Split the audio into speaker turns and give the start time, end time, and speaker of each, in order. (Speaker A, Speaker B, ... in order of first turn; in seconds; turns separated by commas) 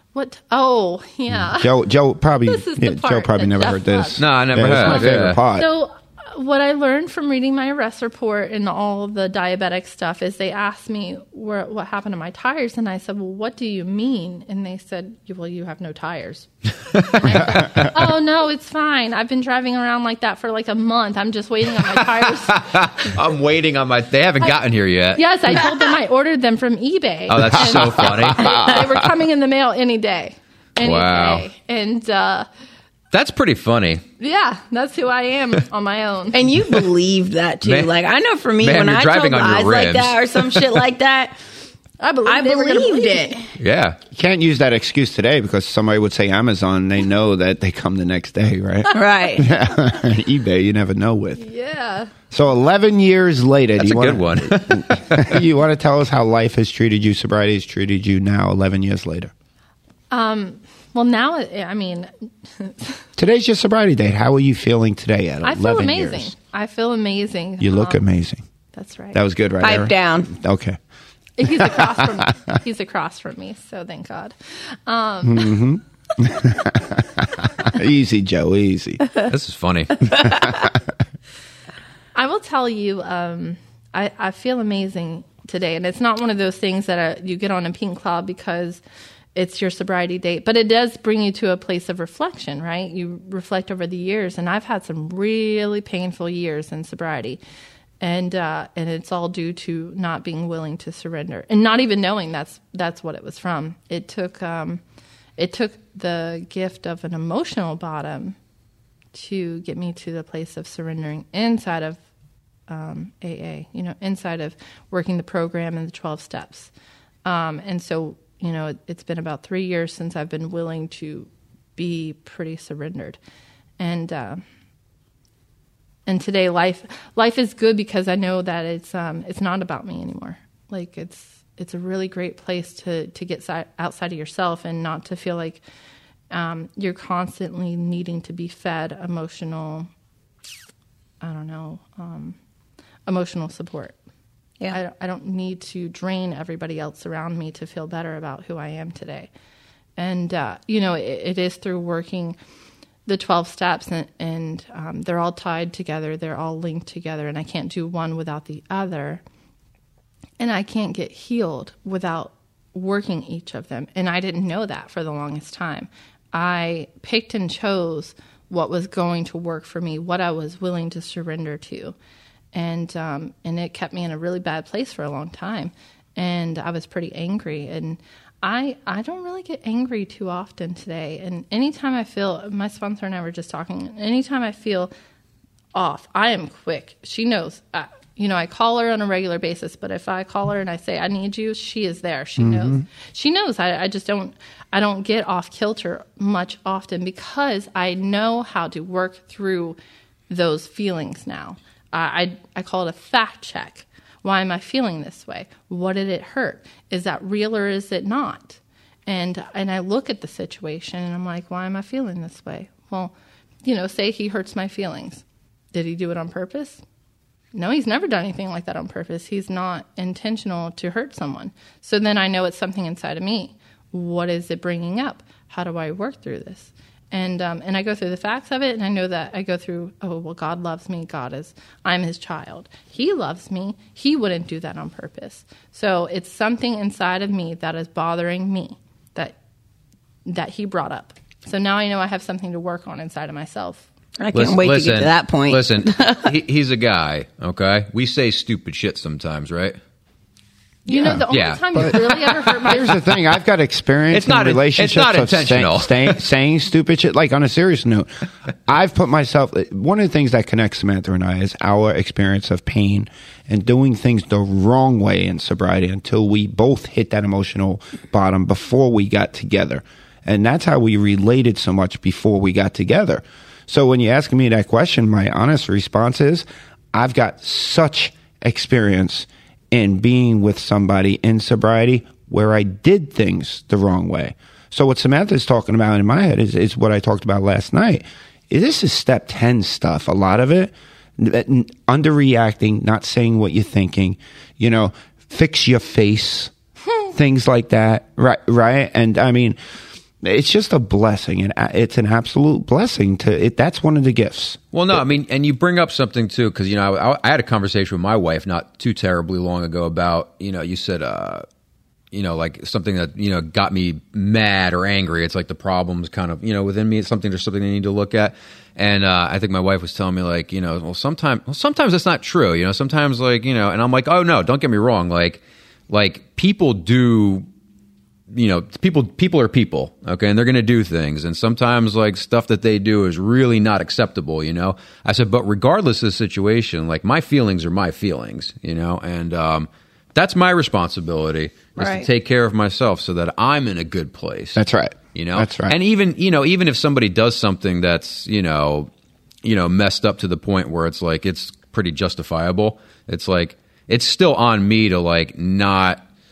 Speaker A: 0.1-1.7, Speaker B: 1.3-5.7, Speaker A: 2.4-23.1, Speaker C: 4.2-5.4, Speaker C: 22.0-25.6, Speaker A: 25.1-32.5, Speaker C: 27.3-28.8, Speaker B: 27.6-28.6, Speaker C: 30.8-31.4, Speaker C: 33.1-34.0, Speaker A: 34.2-36.4, Speaker D: 36.3-41.3, Speaker C: 37.6-37.9, Speaker C: 38.6-40.8, Speaker A: 42.0-43.4, Speaker D: 42.2-43.4, Speaker C: 43.6-44.0, Speaker B: 44.1-51.4, Speaker D: 48.9-49.5, Speaker A: 51.4-52.1, Speaker B: 52.3-59.3, Speaker C: 53.8-55.4, Speaker A: 60.1-63.0, Speaker B: 63.2-66.3, Speaker A: 65.4-68.0, Speaker B: 67.6-68.4, Speaker A: 68.7-69.2, Speaker B: 69.1-70.8, Speaker D: 69.6-70.3, Speaker A: 71.4-74.3, Speaker B: 71.5-72.2, Speaker A: 74.8-75.6, Speaker B: 75.2-79.0, Speaker C: 79.3-80.1, Speaker B: 80.1-80.8, Speaker A: 82.1-88.8, Speaker A: 89.3-97.4, Speaker A: 98.0-104.8, Speaker A: 105.4-108.3, Speaker A: 109.1-112.0, Speaker A: 112.7-116.7, Speaker A: 117.2-123.2, Speaker A: 123.8-124.4, Speaker A: 126.1-135.6, Speaker A: 136.3-139.9, Speaker A: 141.2-142.3, Speaker A: 143.1-143.9, Speaker A: 144.7-149.3, Speaker A: 150.0-152.4, Speaker A: 153.1-159.2, Speaker A: 160.4-171.9, Speaker A: 172.5-184.9, Speaker A: 185.7-199.8, Speaker B: 192.4-192.8, Speaker A: 200.3-216.8, Speaker A: 217.5-239.3, Speaker A: 240.2-243.8, Speaker D: 244.2-246.3, Speaker C: 244.3-249.8, Speaker A: 250.8-253.0, Speaker B: 250.9-258.1, Speaker C: 251.3-252.5, Speaker C: 254.1-256.2, Speaker B: 258.7-296.5, Speaker B: 297.1-299.6, Speaker B: 300.2-305.0, Speaker C: 304.7-311.4, Speaker C: 312.1-327.4, Speaker C: 328.3-344.6, Speaker D: 341.8-342.1, Speaker B: 344.6-345.8, Speaker C: 345.1-348.9, Speaker C: 349.4-356.0